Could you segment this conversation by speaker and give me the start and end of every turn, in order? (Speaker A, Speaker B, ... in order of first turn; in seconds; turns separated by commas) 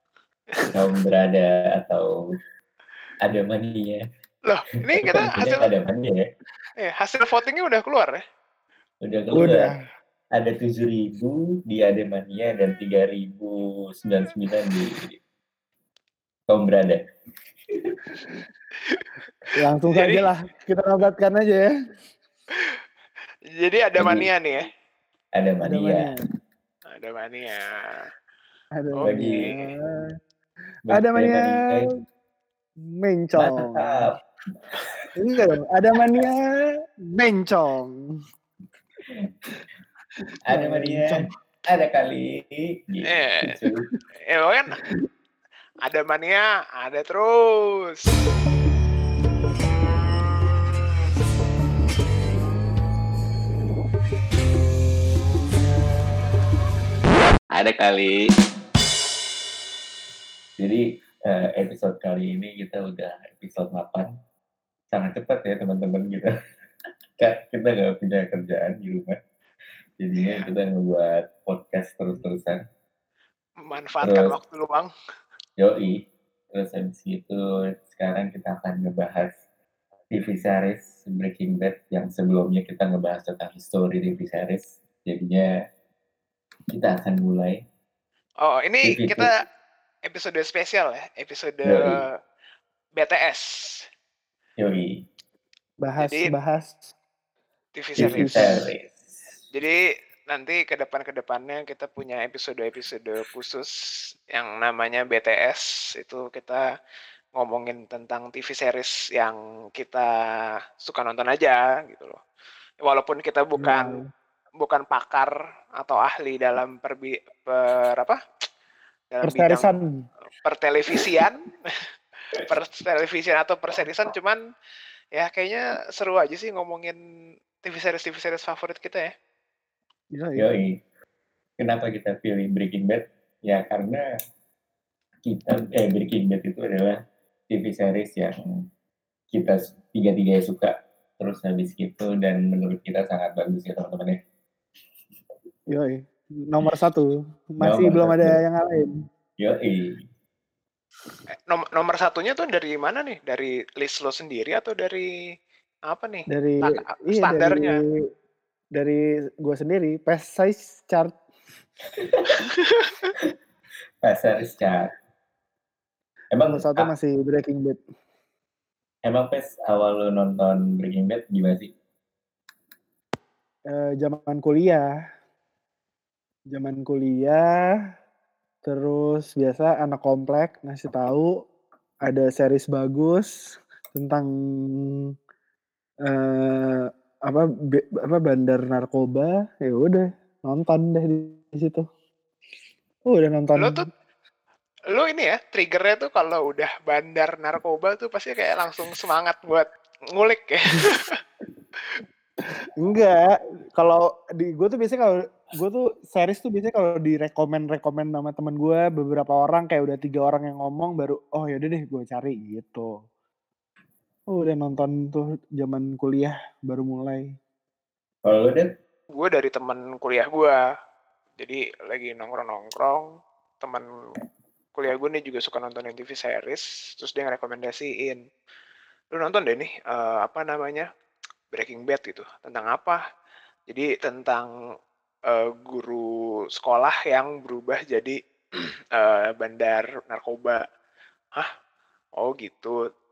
Speaker A: 0.7-2.2, Speaker A: 3.2-4.0, Speaker B: 4.4-5.7, Speaker A: 4.9-6.2, Speaker B: 6.8-8.2, Speaker A: 9.0-9.7, Speaker C: 9.3-9.8, Speaker A: 10.3-15.2, Speaker A: 16.5-17.0, Speaker C: 19.6-21.7, Speaker B: 19.8-20.3, Speaker B: 23.5-24.6, Speaker A: 24.0-24.3, Speaker A: 25.3-26.1, Speaker C: 25.6-26.2, Speaker B: 26.9-28.1, Speaker C: 28.7-30.1, Speaker B: 28.9-29.6, Speaker A: 29.0-29.6, Speaker A: 30.9-31.9, Speaker C: 30.9-31.9, Speaker C: 32.8-34.1, Speaker A: 33.4-34.1, Speaker C: 35.1-38.1, Speaker A: 40.5-43.9, Speaker C: 40.5-41.3, Speaker B: 43.0-43.5, Speaker B: 44.3-44.8, Speaker B: 45.8-48.1, Speaker A: 60.6-64.1, Speaker A: 64.9-66.3, Speaker A: 67.2-69.2, Speaker A: 70.0-72.6, Speaker B: 73.6-74.9, Speaker A: 74.0-74.3, Speaker A: 75.6-79.3, Speaker A: 80.1-85.5, Speaker A: 86.7-87.6, Speaker B: 88.4-89.3, Speaker A: 88.8-89.3, Speaker B: 90.0-92.2, Speaker A: 91.6-92.0, Speaker B: 93.0-93.9, Speaker A: 94.6-95.0, Speaker C: 95.8-96.9, Speaker B: 96.0-96.3, Speaker B: 97.7-98.6, Speaker A: 98.0-99.1, Speaker C: 98.0-98.5, Speaker B: 99.5-106.6, Speaker B: 107.3-112.2, Speaker B: 112.8-114.0, Speaker C: 113.6-114.1, Speaker B: 114.6-118.2, Speaker B: 119.1-119.7, Speaker C: 119.2-120.0, Speaker B: 120.4-121.5, Speaker B: 122.4-124.4, Speaker B: 125.1-127.0, Speaker B: 127.6-129.1, Speaker C: 130.1-130.4, Speaker A: 130.3-130.8, Speaker A: 131.6-134.1, Speaker A: 135.2-138.7, Speaker A: 139.3-144.2, Speaker C: 145.7-148.9, Speaker A: 147.6-148.4, Speaker A: 149.4-150.1, Speaker B: 151.5-155.1, Speaker B: 155.9-157.8, Speaker C: 156.3-158.0, Speaker C: 158.7-161.2, Speaker A: 162.0-162.3, Speaker B: 162.5-163.1, Speaker A: 164.0-164.9, Speaker A: 166.3-166.9, Speaker C: 166.5-167.8, Speaker A: 169.0-171.7, Speaker C: 173.7-174.9, Speaker C: 176.5-177.7, Speaker C: 178.6-181.3, Speaker C: 182.0-185.1, Speaker C: 186.0-191.8, Speaker C: 193.1-193.8, Speaker B: 193.6-193.8, Speaker B: 194.9-201.2, Speaker C: 202.8-213.0, Speaker C: 214.3-217.3, Speaker A: 218.2-218.7, Speaker B: 219.1-220.6, Speaker B: 221.4-223.1, Speaker B: 223.6-223.9, Speaker B: 224.7-228.2, Speaker B: 229.1-230.8, Speaker B: 231.5-233.0, Speaker B: 233.7-234.5, Speaker B: 235.3-238.2, Speaker B: 238.9-240.6, Speaker B: 242.2-242.8